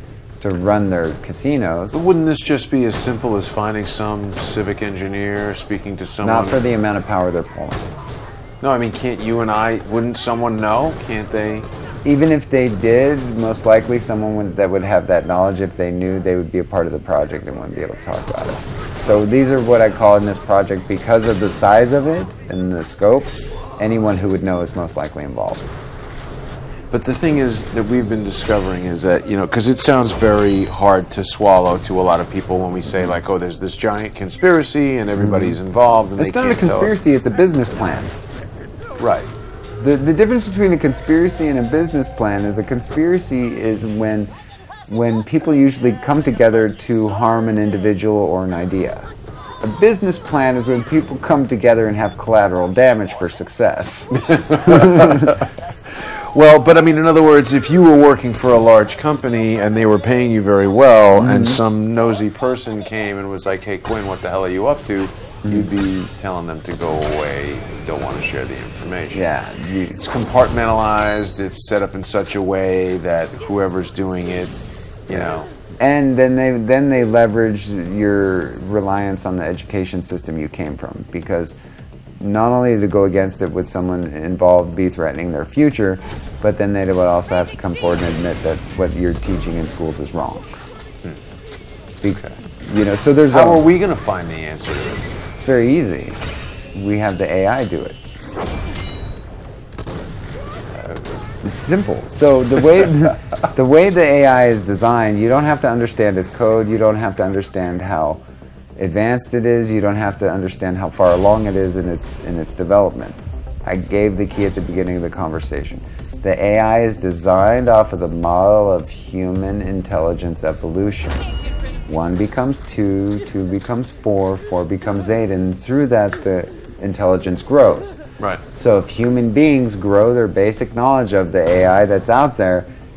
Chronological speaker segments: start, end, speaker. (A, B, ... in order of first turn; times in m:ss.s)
0:00.4-0:02.0 A
0:01.9-0:06.6 B
0:06.2-0:07.9 A
0:08.6-0:11.7 B
0:12.0-0:25.7 A
0:26.9-0:37.0 B
0:35.2-0:35.6 A
0:36.2-0:38.1 A
0:39.0-0:39.3 B
0:39.8-0:44.3 A
0:44.9-0:49.1 A
0:49.6-0:55.4 A
0:54.1-1:09.2 B
1:01.2-1:01.6 A
1:05.4-1:05.7 A
1:09.1-1:10.0 A
1:10.0-1:15.5 B
1:15.1-1:21.6 A
1:22.2-1:30.5 A
1:32.0-1:33.7 A
1:33.3-1:35.2 B
1:35.3-1:36.2 A
1:36.7-1:38.0 A
1:40.7-1:41.2 B
1:41.4-1:48.2 A
1:48.8-2:01.3 A
2:01.9-2:08.0 A
2:08.5-2:12.7 A